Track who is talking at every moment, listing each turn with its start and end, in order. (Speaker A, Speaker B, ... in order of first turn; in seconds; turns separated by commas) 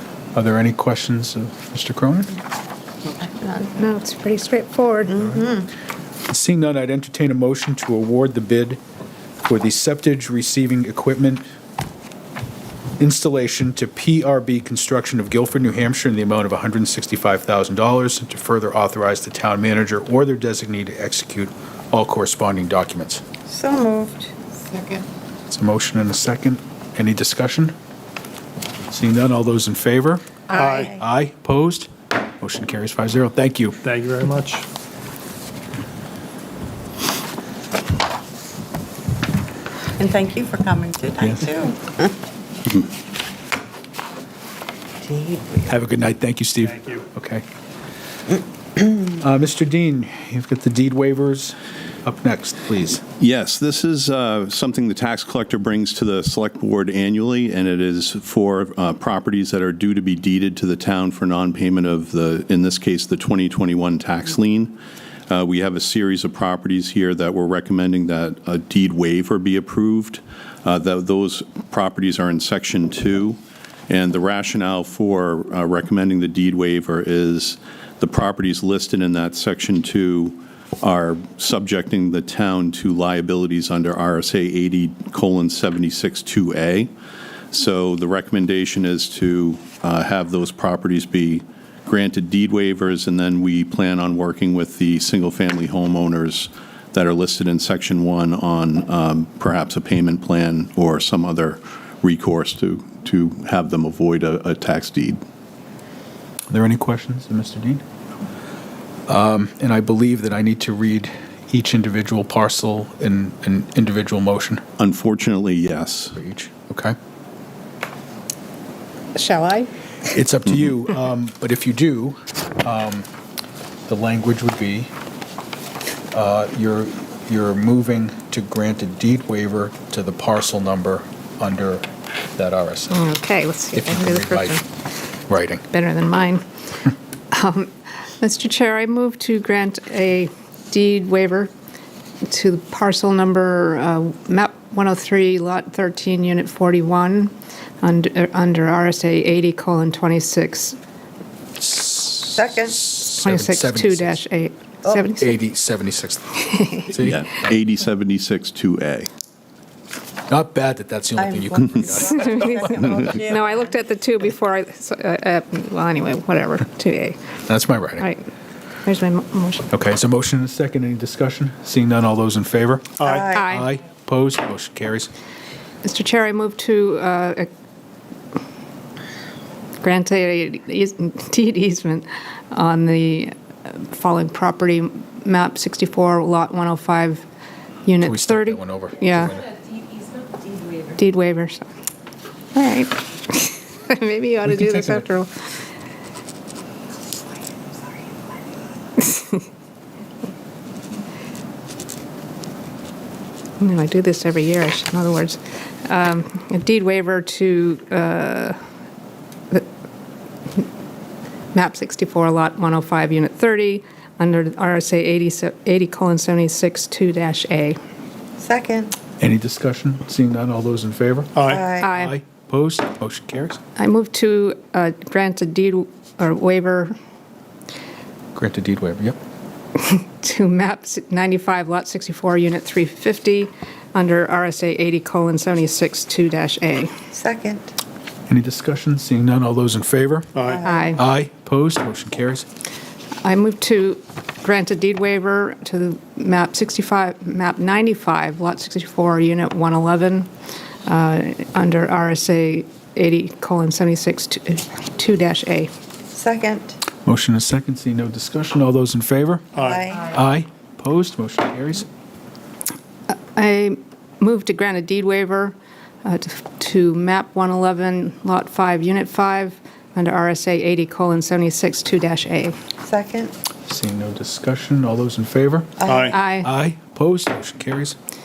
Speaker A: 0.3-2.4, Speaker B: 3.2-5.3, Speaker C: 5.2-5.7, Speaker A: 6.3-8.8, Speaker A: 9.5-11.4, Speaker A: 13.0-23.2, Speaker C: 23.5-25.1, Speaker A: 25.5-27.8, Speaker A: 28.9-30.4, Speaker D: 30.5-30.9, Speaker C: 30.5-31.0, Speaker A: 30.9-33.8, Speaker D: 33.8-34.7, Speaker C: 40.0-42.1, Speaker A: 41.2-41.5, Speaker C: 45.0-45.7, Speaker A: 45.7-47.4, Speaker A: 49.0-53.0, Speaker E: 53.2-64.8, Speaker E: 65.3-86.9, Speaker E: 87.5-105.2, Speaker A: 106.5-107.8, Speaker A: 109.1-114.6, Speaker E: 114.8-116.2, Speaker A: 116.2-117.0, Speaker B: 119.1-119.7, Speaker A: 120.1-123.1, Speaker A: 123.9-124.9, Speaker A: 126.1-133.1, Speaker B: 132.9-134.6, Speaker A: 133.7-134.6, Speaker A: 135.3-135.6, Speaker B: 135.7-136.4, Speaker B: 137.3-141.5, Speaker B: 142.3-150.8, Speaker A: 151.6-154.2, Speaker C: 152.3-152.9, Speaker B: 153.1-155.4, Speaker C: 154.8-155.1, Speaker A: 155.1-157.3, Speaker B: 156.4-156.9, Speaker E: 156.9-159.1, Speaker A: 160.3-162.6, Speaker C: 161.2-163.6, Speaker B: 162.1-167.2, Speaker A: 167.5-168.1, Speaker B: 168.0-168.3, Speaker B: 168.8-169.7, Speaker A: 169.7-175.1, Speaker D: 173.0-173.3, Speaker C: 173.0-173.5, Speaker B: 173.3-173.7, Speaker B: 175.8-177.5, Speaker B: 179.8-187.2, Speaker B: 187.9-189.4, Speaker A: 188.0-189.6, Speaker B: 190.7-191.7, Speaker B: 192.5-195.3, Speaker A: 194.5-195.0, Speaker B: 199.0-199.4, Speaker B: 203.6-208.6, Speaker B: 211.5-217.8, Speaker C: 218.4-218.9, Speaker A: 219.2-223.6, Speaker D: 221.4-221.6, Speaker C: 221.4-221.9, Speaker B: 221.8-222.2, Speaker B: 223.8-226.9, Speaker A: 228.3-229.2, Speaker B: 229.8-236.9, Speaker C: 237.1-237.7, Speaker A: 238.3-240.3, Speaker D: 240.3-240.6, Speaker C: 240.4-241.0, Speaker B: 240.6-241.0, Speaker A: 240.9-242.5, Speaker B: 243.2-250.3, Speaker B: 250.9-255.7, Speaker C: 256.1-256.8, Speaker A: 257.1-261.9, Speaker C: 259.6-260.1, Speaker B: 263.3-272.6, Speaker C: 272.8-273.3, Speaker A: 273.7-278.0, Speaker C: 275.8-276.2, Speaker D: 275.9-276.1, Speaker B: 276.1-276.5